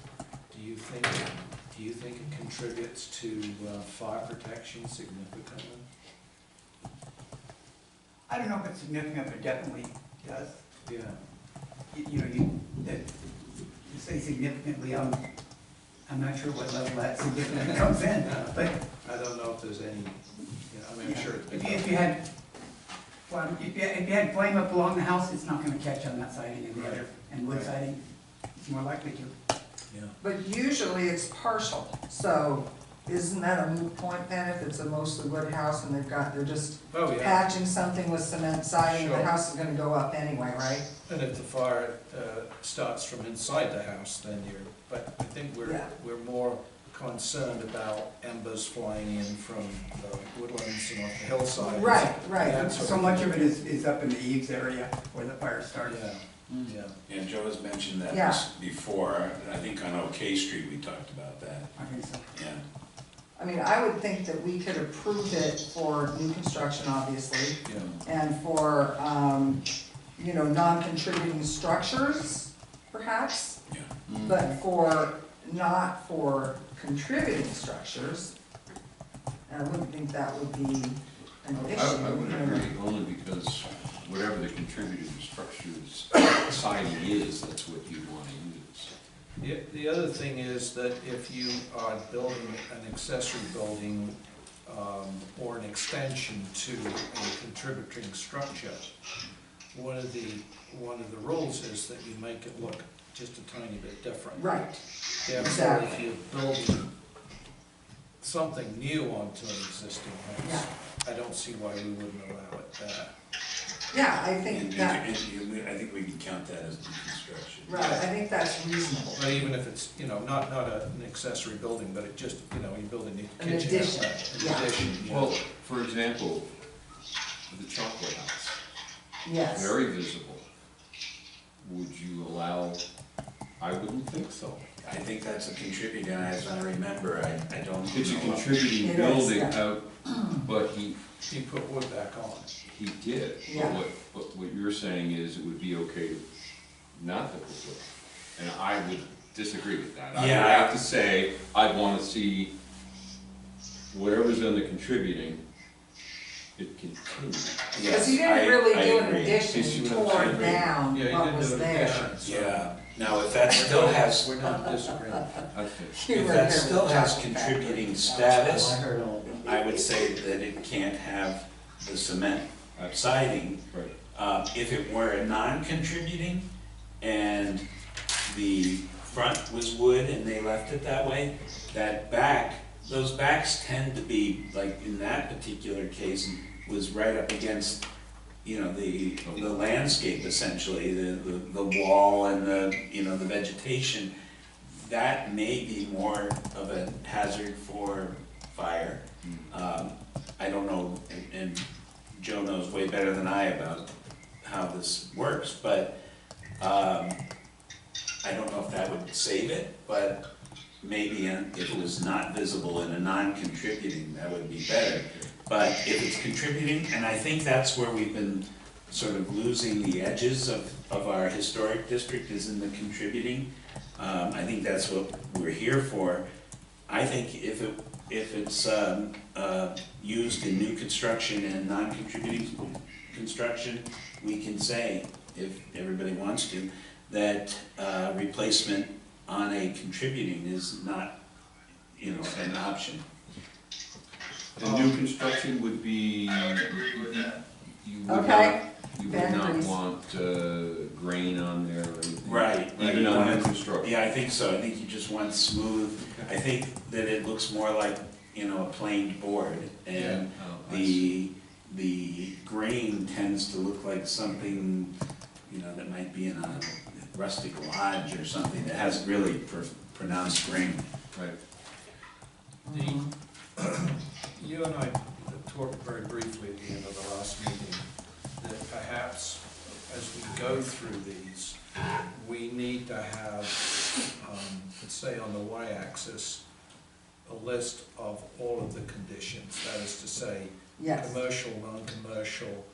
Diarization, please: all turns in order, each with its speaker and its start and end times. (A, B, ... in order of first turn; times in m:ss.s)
0:00.5-0:05.8 A
0:08.3-0:10.6 B
0:10.8-0:11.2 A
0:11.9-0:13.1 B
0:13.8-0:15.2 B
0:16.1-0:18.8 B
0:18.2-0:18.5 A
0:19.0-0:22.0 A
0:21.0-0:22.2 B
0:23.3-0:28.0 B
0:26.7-0:27.7 A
0:28.5-0:29.3 B
0:29.9-0:30.2 A
0:30.2-0:40.9 C
0:36.9-0:37.5 A
0:38.8-0:39.3 A
0:41.1-0:53.5 A
0:45.6-0:45.9 C
0:51.6-0:52.8 C
0:52.4-0:56.0 B
0:55.8-0:56.9 A
0:57.1-1:01.7 D
0:58.1-0:58.4 C
1:01.8-1:02.2 B
1:02.3-1:02.6 D
1:03.4-1:09.6 C
1:07.7-1:08.0 E
1:10.2-1:13.6 C
1:14.1-1:14.4 E
1:14.1-1:18.3 C
1:19.5-1:22.7 C
1:21.7-1:28.9 E
1:29.4-1:38.8 A
1:39.7-1:44.5 A
1:44.4-1:45.9 C
1:45.2-1:46.9 A
1:48.2-1:53.1 A
1:53.9-1:55.0 C
1:54.5-1:58.0 D
1:57.6-1:59.4 C
1:59.1-2:05.3 A
2:03.4-2:04.7 C
2:04.9-2:05.4 D
2:05.1-2:06.5 E
2:07.5-2:08.6 E
2:09.2-2:09.7 C
2:09.5-2:10.4 E
2:11.6-2:12.8 E
2:13.6-2:14.7 E
2:14.8-2:18.6 D
2:17.9-2:21.0 E
2:18.8-2:19.6 C
2:21.2-2:22.5 A
2:22.6-2:26.2 E
2:23.5-2:23.8 C
2:26.9-2:32.5 E
2:30.1-2:30.8 D
2:33.9-2:35.4 E
2:36.6-2:37.6 E
2:37.7-2:39.4 D
2:37.8-2:42.1 C
2:39.5-2:40.6 E
2:39.5-2:42.7 A
2:42.2-2:44.3 D
2:43.5-2:45.4 A
2:45.5-2:46.0 E
2:45.9-2:49.7 C
2:46.1-2:48.8 D
2:48.5-2:49.4 A
2:49.4-2:53.6 D
2:54.1-2:56.4 D
2:57.0-2:57.6 D
2:58.2-3:07.8 D
3:08.4-3:23.9 D
3:19.2-3:19.5 E
3:24.4-3:25.9 D
3:26.6-3:27.2 D
3:28.2-3:30.2 D
3:30.8-3:46.2 D
3:46.9-4:01.1 D
4:01.9-4:03.0 D
4:04.6-4:13.9 E
4:04.6-4:05.0 A
4:08.0-4:09.7 C
4:12.2-4:24.9 D
4:19.9-4:21.0 E
4:25.5-4:30.8 D
4:32.6-4:33.1 C
4:32.7-4:33.0 A
4:33.6-4:46.4 A
4:47.2-4:52.6 A
4:50.8-4:51.1 C